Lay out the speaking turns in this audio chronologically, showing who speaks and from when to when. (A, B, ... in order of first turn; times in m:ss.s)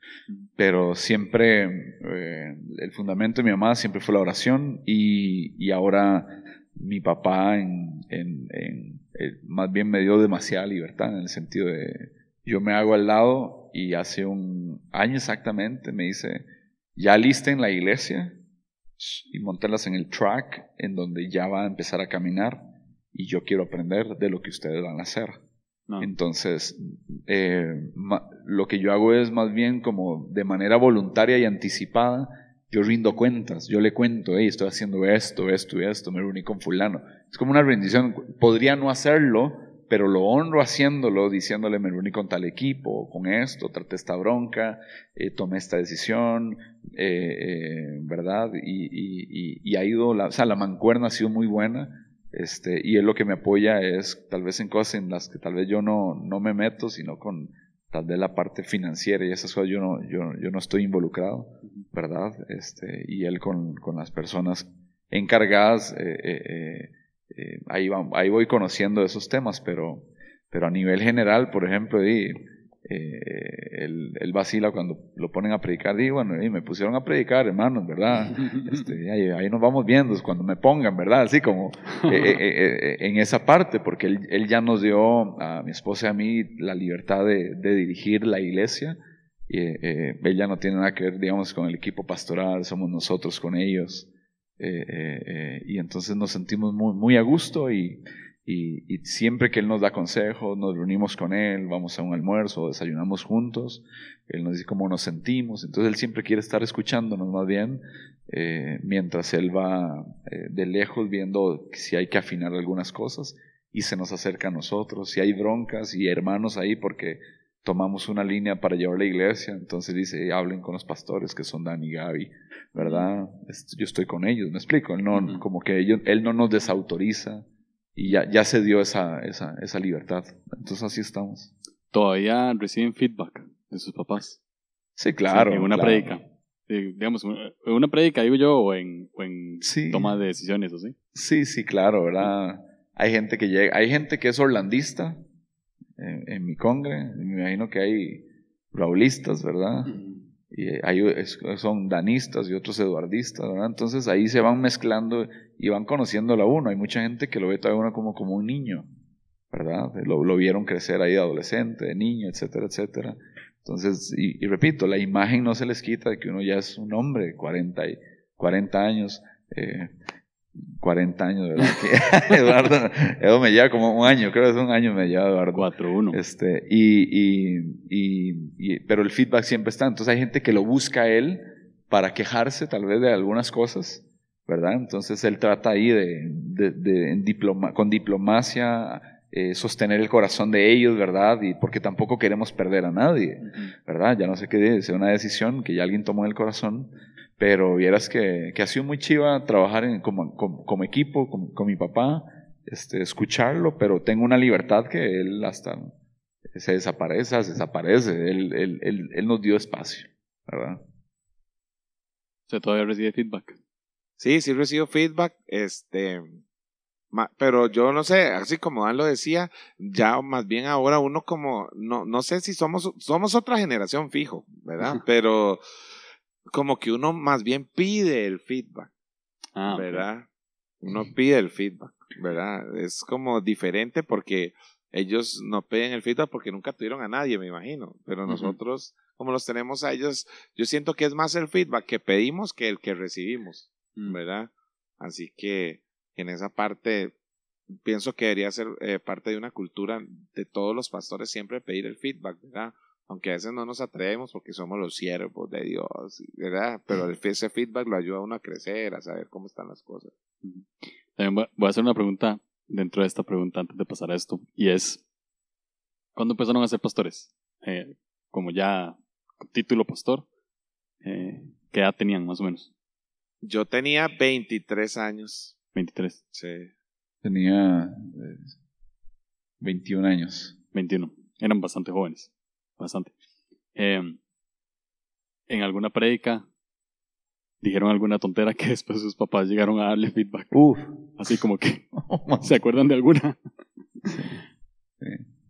0:00.6-0:16.4 A
0:17.0-0:18.4 A
0:19.0-0:22.6 A
0:23.1-0:25.4 A
0:26.0-1:29.0 A
1:18.4-1:18.9 B
1:22.0-1:22.4 B
1:29.5-1:34.1 A
1:34.6-2:07.4 A
2:02.8-2:03.0 B
2:05.1-2:05.4 B
2:07.9-2:11.5 A
2:11.9-2:14.4 B
2:15.0-2:16.2 A
2:15.3-2:20.9 B
2:19.6-2:20.1 A
2:21.1-2:25.2 A
2:26.0-2:29.9 A
2:29.8-2:30.3 B
2:30.5-2:38.9 A
2:39.5-2:49.9 A
2:50.6-3:25.9 A
2:55.5-2:56.2 B
3:13.4-3:13.7 B
3:26.5-3:30.8 A
3:32.5-3:33.6 B
3:34.2-3:36.3 C
3:37.1-3:45.6 C
3:46.5-3:48.9 C
3:49.6-3:50.0 B
3:49.7-3:50.3 C
3:50.8-4:07.1 C
3:58.3-3:58.6 B
4:07.7-4:20.1 C
4:20.4-4:25.0 B
4:26.2-4:30.2 B
4:31.0-4:32.7 B
4:33.4-4:35.6 C
4:35.7-4:36.2 B
4:36.3-4:36.7 C
4:37.2-4:38.5 A
4:39.6-4:40.6 A
4:40.7-4:43.1 B
4:43.7-4:44.2 B
4:45.5-4:46.4 B
4:47.6-4:50.5 B
4:50.5-4:51.0 A
4:51.1-4:51.8 B
4:51.9-4:52.5 A
4:52.4-4:53.4 B
4:54.1-4:54.4 A